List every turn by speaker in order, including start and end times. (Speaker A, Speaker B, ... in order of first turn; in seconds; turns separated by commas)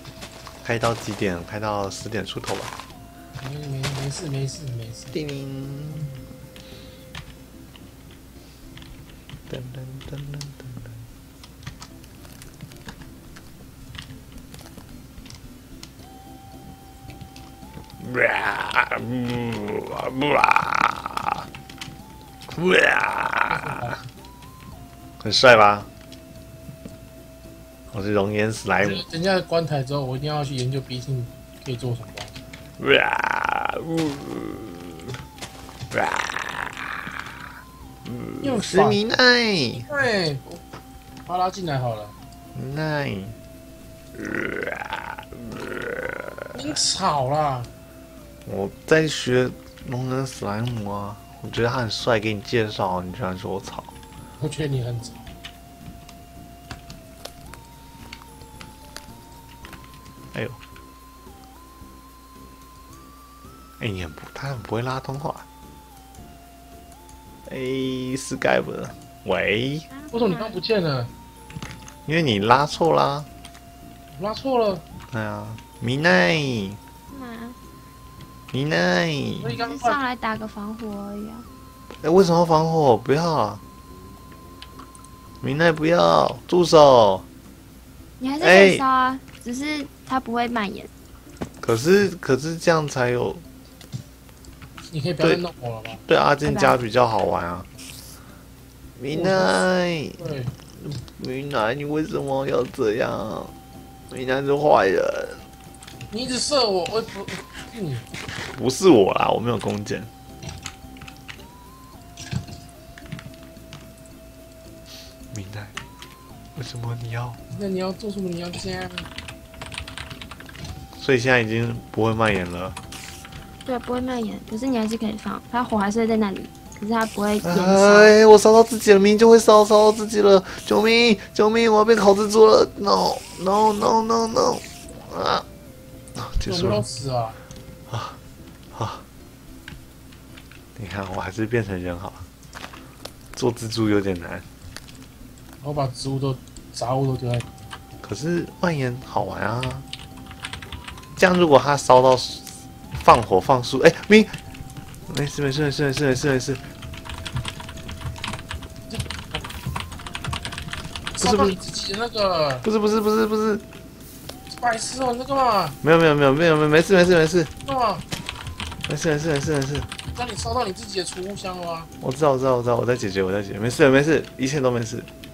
Speaker A: 0.6-2.7, Speaker B: 3.4-5.2, Speaker A: 5.1-6.2, Speaker A: 9.5-11.0, Speaker A: 18.0-21.5, Speaker A: 22.5-23.8, Speaker B: 23.5-24.0, Speaker A: 25.2-25.9, Speaker A: 27.9-29.0, Speaker B: 28.8-32.4, Speaker A: 32.8-35.1, Speaker A: 35.9-36.9, Speaker A: 38.0-39.9, Speaker B: 38.4-39.0, Speaker B: 39.8-40.6, Speaker B: 41.2-42.1, Speaker A: 42.5-43.4, Speaker A: 44.1-46.5, Speaker B: 46.5-47.7, Speaker A: 48.5-53.9, Speaker B: 54.4-55.3, Speaker A: 60.3-60.6, Speaker A: 63.8-65.5, Speaker A: 67.5-69.9, Speaker C: 69.9-70.6, Speaker B: 70.1-71.1, Speaker A: 72.0-73.3, Speaker B: 74.1-74.8, Speaker A: 75.1-76.8, Speaker C: 77.1-77.6, Speaker A: 78.5-79.5, Speaker B: 79.4-80.0, Speaker C: 79.6-81.5, Speaker A: 82.0-83.6, Speaker A: 85.4-87.2, Speaker C: 88.2-90.9, Speaker A: 88.4-88.8, Speaker A: 91.6-93.4, Speaker B: 94.9-96.0, Speaker A: 95.2-97.7, Speaker C: 96.4-96.8, Speaker A: 99.0-100.2, Speaker B: 99.1-99.6, Speaker B: 100.2-100.5, Speaker A: 100.8-103.5, Speaker A: 104.1-105.4, Speaker B: 106.1-108.1, Speaker A: 108.5-110.1, Speaker A: 115.3-115.7, Speaker A: 116.5-117.4, Speaker B: 117.5-119.1, Speaker A: 121.0-122.8, Speaker C: 123.6-128.1, Speaker A: 127.4-135.4, Speaker A: 136.1-136.8, Speaker B: 136.4-137.4, Speaker A: 137.9-138.2, Speaker A: 138.7-139.0, Speaker A: 140.8-142.2, Speaker A: 143.3-144.4, Speaker B: 145.6-147.4, Speaker A: 148.0-149.8, Speaker A: 151.2-154.4, Speaker A: 155.1-156.7, Speaker B: 158.9-159.4, Speaker A: 161.2-161.6, Speaker B: 161.2-162.7, Speaker A: 162.6-163.6, Speaker B: 164.5-165.8, Speaker A: 165.8-167.5, Speaker B: 167.6-168.0, Speaker A: 168.9-169.9, Speaker B: 170.1-171.9, Speaker A: 172.0-175.1